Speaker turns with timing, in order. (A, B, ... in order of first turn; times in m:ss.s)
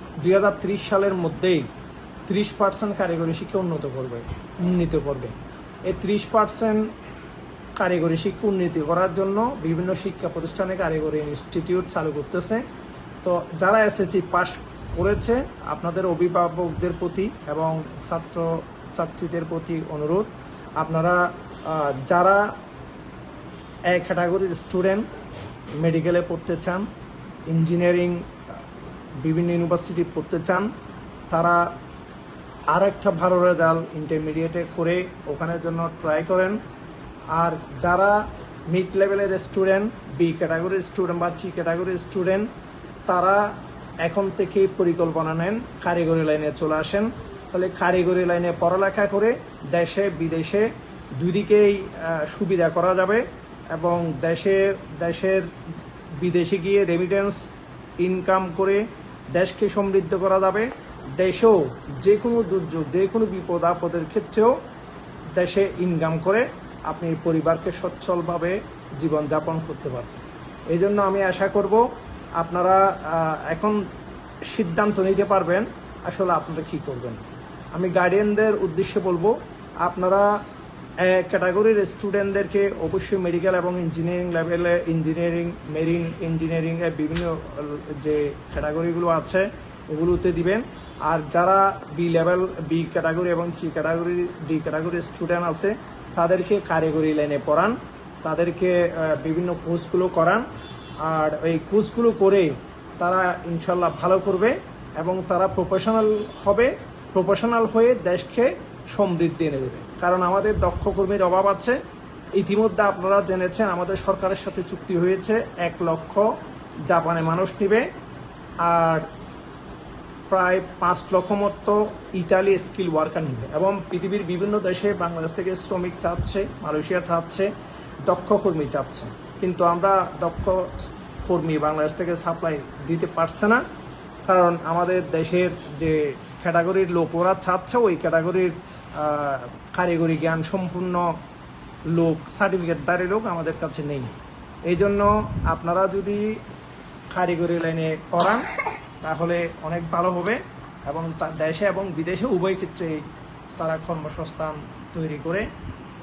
0:00.2-0:01.7 A
0:02.3-0:05.4 A
0:05.9-0:06.9 A
0:07.8-0:12.6 A
0:13.2-0:20.3 A
0:20.8-0:22.5 A
0:23.9-0:25.0 A
0:25.8-0:26.9 A
0:27.5-0:28.3 A
0:29.2-0:30.7 A
0:31.3-0:31.7 A
0:32.7-0:36.6 A
0:37.3-0:42.5 A
0:43.1-0:55.5 A
0:56.2-1:04.6 A
1:05.4-1:10.2 A
1:10.7-1:13.8 A
1:14.4-1:20.4 A
1:21.0-1:40.5 A
1:41.0-1:51.8 A
1:52.4-1:56.3 A
1:56.9-1:57.9 A
1:58.6-1:59.1 A
2:00.3-2:07.5 A
2:08.1-2:13.6 A
2:14.3-2:21.2 A
2:21.9-2:24.1 A
2:24.7-2:26.4 A
2:27.1-2:28.5 A
2:29.0-2:33.0 A
2:33.6-2:35.5 A